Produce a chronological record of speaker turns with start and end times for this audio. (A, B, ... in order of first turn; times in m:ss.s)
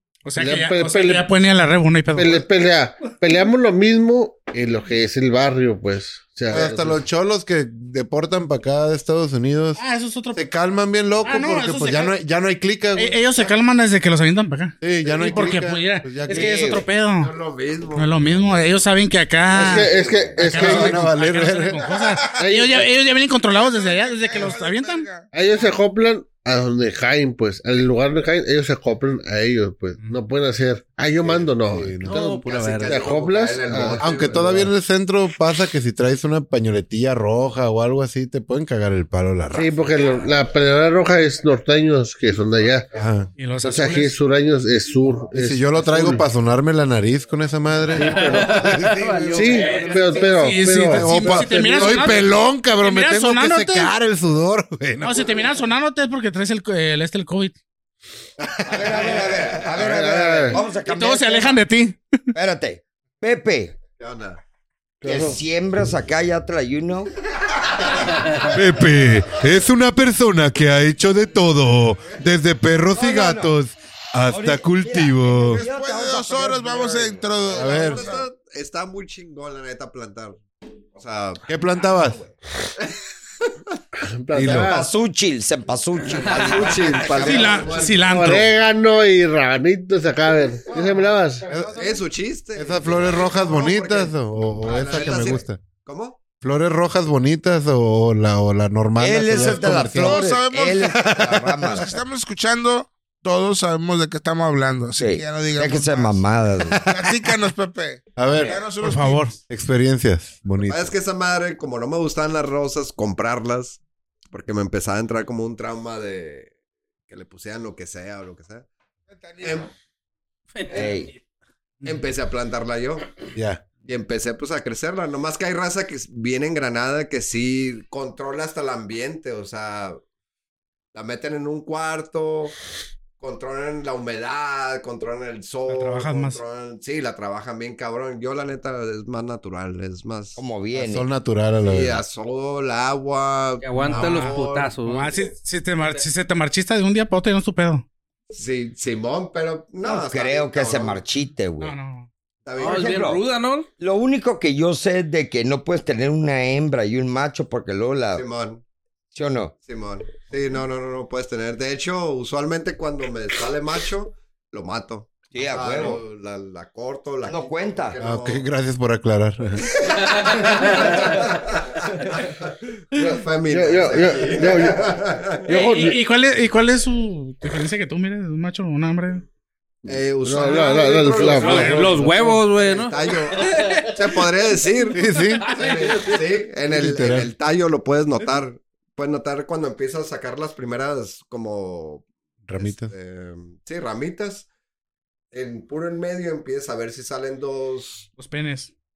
0:00.2-0:02.4 A
0:00.4-0:01.3 B
0:02.1-0:07.0 B
0:06.5-0:09.8 C
0:09.8-0:10.4 A
0:10.3-0:13.2 C
0:11.2-0:12.1 A
0:13.0-0:17.3 A
0:14.8-0:16.6 C
0:16.3-0:16.9 D
0:17.2-0:18.1 E
0:17.9-0:25.1 A
0:19.5-0:21.0 B
0:19.6-0:20.6 D
0:20.6-0:21.9 C
0:21.8-0:22.3 F
0:22.4-0:22.8 B
0:23.5-0:25.7 F
0:25.3-0:34.7 B
0:31.6-0:32.2 C
0:32.0-0:33.0 G
0:32.4-0:34.4 E
0:33.9-0:39.7 C
0:39.5-0:42.9 B
0:42.9-0:43.3 C
0:43.4-0:44.2 A
0:43.6-0:46.2 B
0:45.3-0:55.4 C
0:47.9-0:48.6 B
0:48.0-0:50.3 G
0:49.3-0:52.2 B
0:49.7-0:53.9 A
0:55.0-0:57.6 A
0:58.4-0:59.3 C
0:58.7-1:01.6 D
0:58.7-0:59.7 E
0:59.8-1:00.6 B
1:00.8-1:02.2 A
1:02.3-1:03.8 D
1:04.0-1:04.4 E
1:05.0-1:05.4 B
1:05.0-1:07.1 D
1:08.5-1:15.6 C
1:12.9-1:13.5 D
1:14.3-1:17.2 D
1:15.3-1:18.2 F
1:17.4-1:20.4 E
1:17.5-1:18.0 C
1:21.0-1:21.4 E
1:21.5-1:22.2 C
1:24.0-1:24.9 B
1:24.3-1:24.8 C
1:24.5-1:27.7 D
1:26.2-1:28.1 E
1:26.3-1:27.2 G
1:27.2-1:28.5 A
1:28.0-1:31.4 B
1:31.5-1:31.8 C
1:31.7-1:36.2 E
1:32.5-1:35.6 C
1:36.4-1:40.2 C
1:39.0-1:41.9 D
1:39.3-1:46.2 F
1:41.2-1:41.8 C
1:45.0-1:46.9 D
1:46.8-1:49.3 F
1:48.2-1:48.6 C
1:48.3-1:48.6 E
1:48.8-1:49.3 A
1:49.5-1:50.9 C
1:50.6-1:53.8 E
1:54.3-1:56.5 E
1:57.1-1:58.7 E
1:59.1-1:59.7 F
1:59.4-1:59.7 E
2:00.5-2:01.2 G
2:00.7-2:01.1 D
2:01.8-2:03.0 E
2:03.4-2:03.6 C
2:03.8-2:10.0 E
2:10.9-2:12.5 E
2:13.2-2:20.4 E
2:15.7-2:16.4 A
2:20.4-2:21.1 D
2:20.8-2:22.0 C
2:21.6-2:24.7 E
2:23.6-2:25.2 G
2:23.8-2:27.8 A
2:28.3-2:31.0 E
2:29.8-2:31.7 D
2:31.6-2:32.1 A
2:32.4-2:33.1 E
2:32.6-2:33.7 G
2:32.6-2:33.2 D
2:33.8-2:38.2 D
2:38.1-2:38.6 E
2:39.1-2:39.5 D
2:39.6-2:48.4 E
2:45.3-2:46.0 D
2:47.2-2:48.0 D
2:48.0-2:49.7 C
2:49.6-2:55.5 E
2:53.0-2:54.9 B
2:55.5-2:56.0 B
2:55.5-2:59.2 A
2:59.8-3:14.5 E
2:59.9-3:02.2 B
3:01.4-3:01.9 A
3:01.5-3:04.2 G
3:04.9-3:05.5 C
3:05.4-3:06.3 G
3:06.7-3:07.3 C
3:12.5-3:12.9 C
3:15.3-3:18.1 E
3:18.2-3:18.7 A